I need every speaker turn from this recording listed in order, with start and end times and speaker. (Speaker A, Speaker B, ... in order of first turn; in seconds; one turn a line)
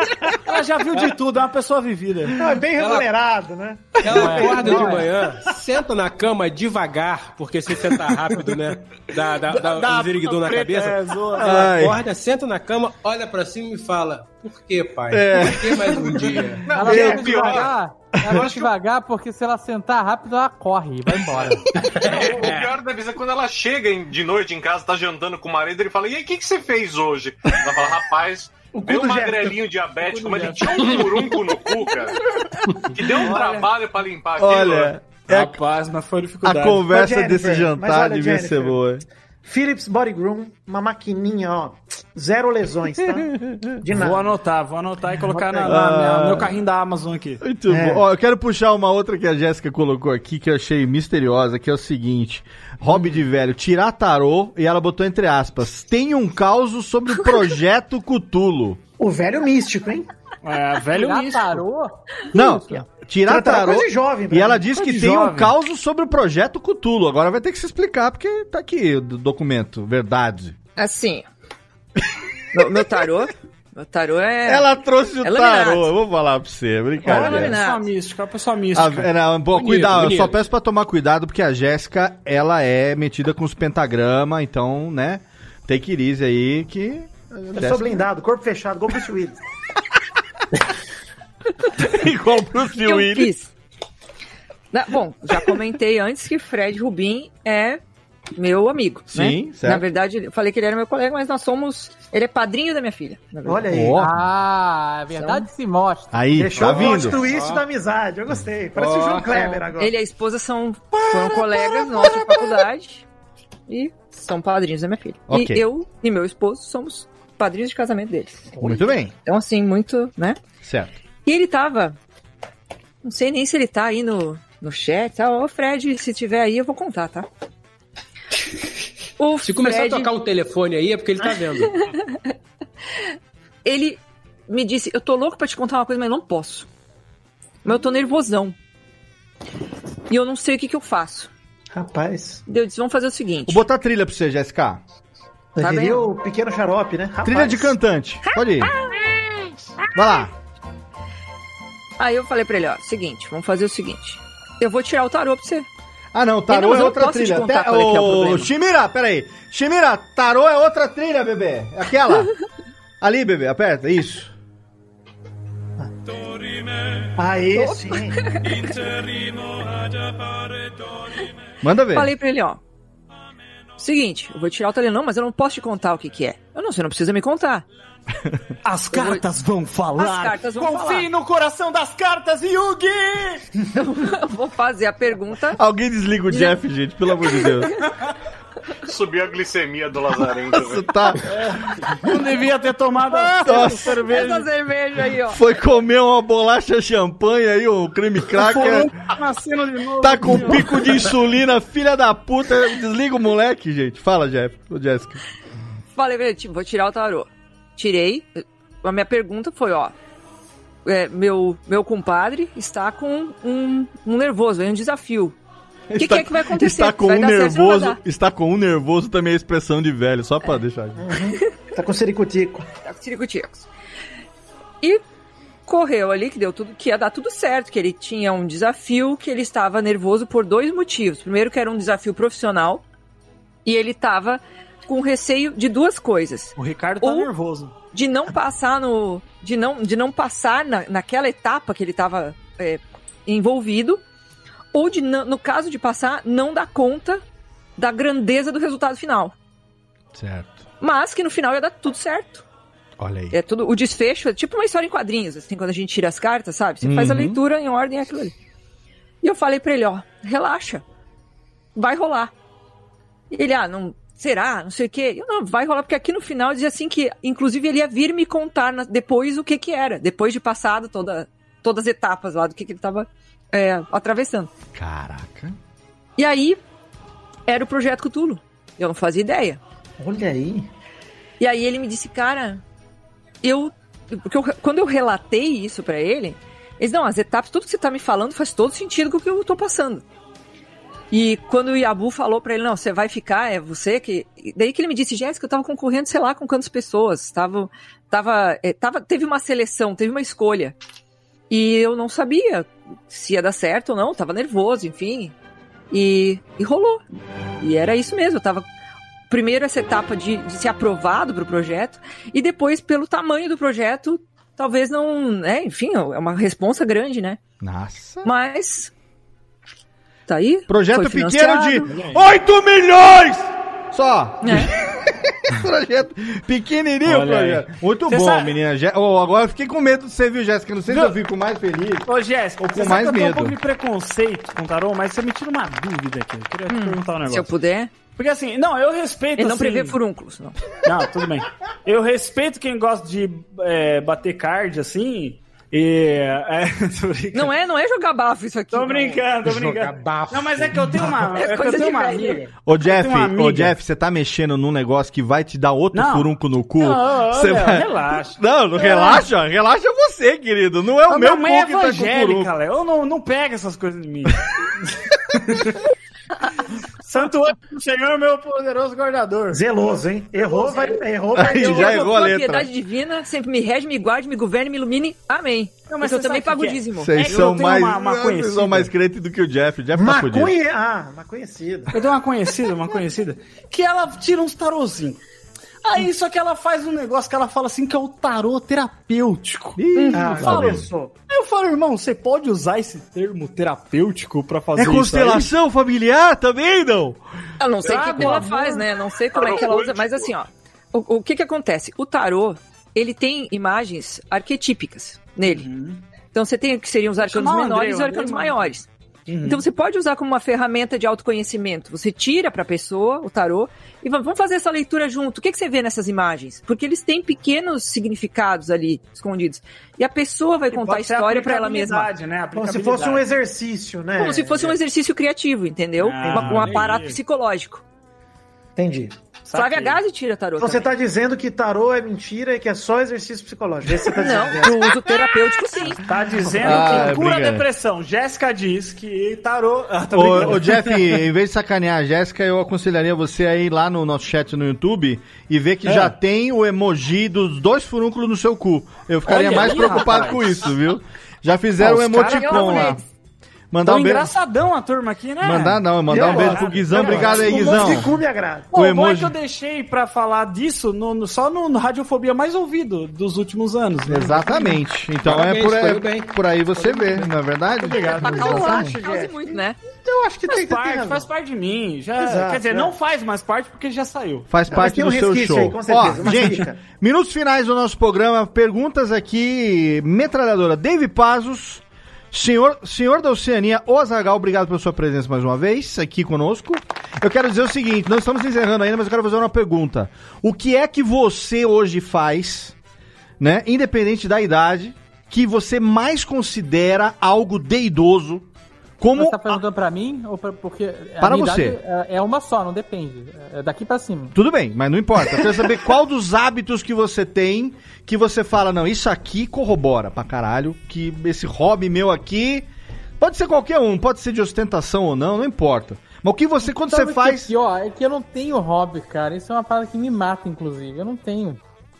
Speaker A: 0.4-2.4
Speaker B: 2.4-5.1
Speaker C: 2.8-3.1
Speaker C: 4.0-16.7
Speaker D: 4.1-5.0
Speaker A: 9.5-11.7
Speaker E: 11.4-12.0
Speaker E: 15.1-16.3
Speaker F: 16.7-17.7
Speaker D: 16.7-21.6
Speaker E: 16.8-17.6
Speaker F: 18.3-18.7
Speaker C: 21.8-22.7
Speaker F: 22.0-32.2
Speaker B: 28.7-29.6
Speaker A: 30.0-31.1
Speaker C: 30.9-31.2
Speaker F: 32.9-35.0
Speaker A: 33.1-33.7
Speaker E: 34.4-35.6
Speaker A: 35.3-36.9
Speaker E: 36.4-39.0
Speaker B: 36.9-38.8
Speaker B: 39.5-44.4
Speaker A: 43.9-47.4
Speaker B: 45.3-45.8
Speaker E: 45.7-46.5
Speaker E: 47.4-58.8
Speaker B: 47.7-48.0
Speaker B: 59.0-60.1
Speaker A: 60.4-61.6
Speaker D: 60.9-62.8
Speaker E: 62.3-70.6
Speaker B: 63.3-64.7
Speaker A: 64.7-65.5
Speaker G: 70.8-71.2
Speaker G: 72.5-74.7
Speaker E: 72.6-73.0
Speaker E: 74.5-77.6
Speaker G: 75.2-75.9
Speaker A: 77.0-79.1
Speaker G: 77.1-77.9
Speaker E: 78.7-88.0
Speaker C: 79.5-80.3
Speaker B: 87.5-89.4
Speaker E: 91.8-93.3
Speaker G: 92.8-93.5
Speaker G: 94.7-97.8
Speaker G: 98.4-103.7
Speaker E: 99.1-99.8
Speaker B: 103.5-104.0
Speaker E: 103.7-104.2
Speaker D: 104.0-106.2
Speaker E: 106.1-107.2
Speaker B: 106.4-110.0
Speaker C: 106.6-107.7
Speaker C: 108.8-109.3
Speaker G: 109.7-113.0
Speaker G: 113.7-118.5
Speaker E: 115.3-115.6
Speaker E: 118.6-119.1
Speaker G: 119.2-120.4
Speaker E: 120.6-121.0
Speaker G: 121.2-122.0
Speaker G: 123.0-127.3
Speaker G: 129.2-130.1
Speaker C: 129.4-131.7
Speaker G: 131.2-132.2
Speaker G: 133.7-136.7
Speaker G: 137.6-138.6
Speaker G: 140.1-141.3
Speaker B: 141.7-142.4
Speaker G: 142.5-143.6
Speaker E: 143.5-144.8
Speaker B: 145.6-147.8
Speaker G: 145.6-146.1
Speaker E: 147.2-148.7
Speaker G: 148.3-149.2
Speaker E: 149.9-150.3
Speaker G: 152.0-155.7
Speaker E: 156.1-162.4
Speaker G: 156.5-158.5
Speaker E: 163.0-164.3
Speaker B: 167.2-168.2
Speaker G: 167.6-168.8
Speaker E: 171.6-172.1
Speaker G: 171.9-172.6
Speaker G: 173.8-177.7
Speaker A: 178.6-183.5
Speaker G: 178.9-179.2
Speaker G: 179.9-181.1
Speaker G: 183.7-185.6
Speaker E: 185.5-187.7
Speaker G: 186.3-186.5
Speaker G: 187.4-187.7
Speaker F: 188.9-190.9
Speaker E: 190.5-191.2
Speaker A: 191.3-194.5
Speaker E: 193.4-194.0
Speaker G: 194.0-195.4
Speaker E: 195.3-198.9
Speaker A: 198.3-201.0
Speaker E: 200.0-205.2
Speaker G: 205.9-209.9
Speaker G: 210.8-215.4
Speaker E: 215.9-221.0
Speaker G: 216.0-218.0
Speaker B: 221.0-222.7
Speaker G: 222.8-223.7
Speaker G: 225.7-232.8
Speaker G: 233.7-237.3
Speaker A: 236.6-237.7
Speaker G: 237.9-244.0
Speaker G: 244.7-247.2
Speaker G: 247.8-249.3
Speaker E: 250.1-250.7
Speaker G: 250.8-252.4
Speaker E: 253.0-253.4
Speaker G: 253.3-258.3
Speaker E: 256.8-257.4
Speaker G: 259.2-260.8
Speaker G: 261.8-262.3
Speaker G: 263.3-274.5
Speaker E: 274.8-275.6
Speaker G: 276.2-276.6
Speaker G: 277.5-279.6
Speaker B: 280.0-280.7
Speaker G: 281.4-282.6
Speaker G: 283.4-290.0
Speaker G: 291.1-300.8
Speaker G: 301.5-305.3
Speaker G: 305.9-307.0
Speaker G: 307.6-308.7
Speaker G: 309.3-317.4
Speaker E: 317.6-318.3
Speaker G: 318.2-318.9
Speaker G: 320.3-321.9
Speaker E: 320.7-332.1
Speaker A: 321.9-322.3
Speaker G: 324.4-324.7
Speaker A: 327.0-328.6
Speaker A: 330.9-331.2
Speaker A: 332.1-337.5
Speaker E: 332.6-333.6
Speaker G: 336.7-337.9
Speaker A: 338.1-340.0
Speaker G: 339.4-340.6
Speaker A: 340.8-347.5
Speaker G: 347.3-349.3
Speaker A: 348.7-353.8
Speaker C: 349.4-351.2
Speaker G: 351.3-352.5
Speaker E: 352.6-362.5
Speaker A: 355.9-359.2
Speaker A: 361.1-364.4
Speaker A: 365.3-365.8
Speaker A: 367.0-369.6
Speaker B: 369.5-372.1
Speaker C: 370.7-371.0
Speaker E: 371.4-372.7
Speaker G: 371.4-377.3
Speaker A: 375.9-378.9
Speaker E: 377.0-380.5
Speaker B: 379.9-381.9
Speaker A: 381.9-385.2
Speaker A: 385.8-395.5
Speaker E: 389.8-390.9
Speaker G: 389.9-390.4
Speaker B: 390.1-391.1
Speaker E: 394.8-397.2
Speaker G: 397.6-405.7
Speaker A: 397.8-400.3
Speaker A: 405.4-406.0
Speaker G: 406.3-408.9
Speaker A: 407.2-408.7
Speaker A: 409.3-409.7
Speaker G: 409.4-422.1
Speaker A: 420.7-423.3
Speaker B: 422.5-424.8
Speaker G: 424.2-427.8
Speaker A: 426.0-427.2
Speaker B: 426.2-426.8
Speaker B: 428.8-429.2
Speaker A: 429.5-430.0
Speaker G: 429.5-430.9
Speaker B: 430.6-435.0
Speaker G: 434.1-436.0
Speaker A: 436.0-441.2
Speaker E: 436.6-437.7
Speaker E: 440.1-453.0
Speaker A: 445.9-446.1
Speaker G: 449.3-450.4
Speaker A: 449.3-450.4
Speaker G: 451.8-453.0
Speaker A: 452.4-452.9
Speaker E: 453.7-454.3
Speaker A: 453.8-458.1
Speaker E: 455.4-458.1
Speaker B: 456.1-458.7
Speaker A: 458.7-464.8
Speaker E: 458.7-459.4
Speaker E: 464.1-468.9
Speaker C: 465.2-466.4
Speaker A: 466.8-469.0
Speaker G: 468.2-469.8
Speaker B: 468.2-471.3
Speaker A: 470.5-474.5
Speaker B: 472.2-472.9
Speaker E: 474.5-492.8
Speaker B: 474.7-476.8
Speaker E: 493.4-498.5
Speaker E: 499.0-499.6
Speaker D: 499.1-504.4
Speaker E: 501.2-501.8
Speaker E: 504.4-512.7
Speaker E: 513.2-517.5
Speaker D: 516.7-521.6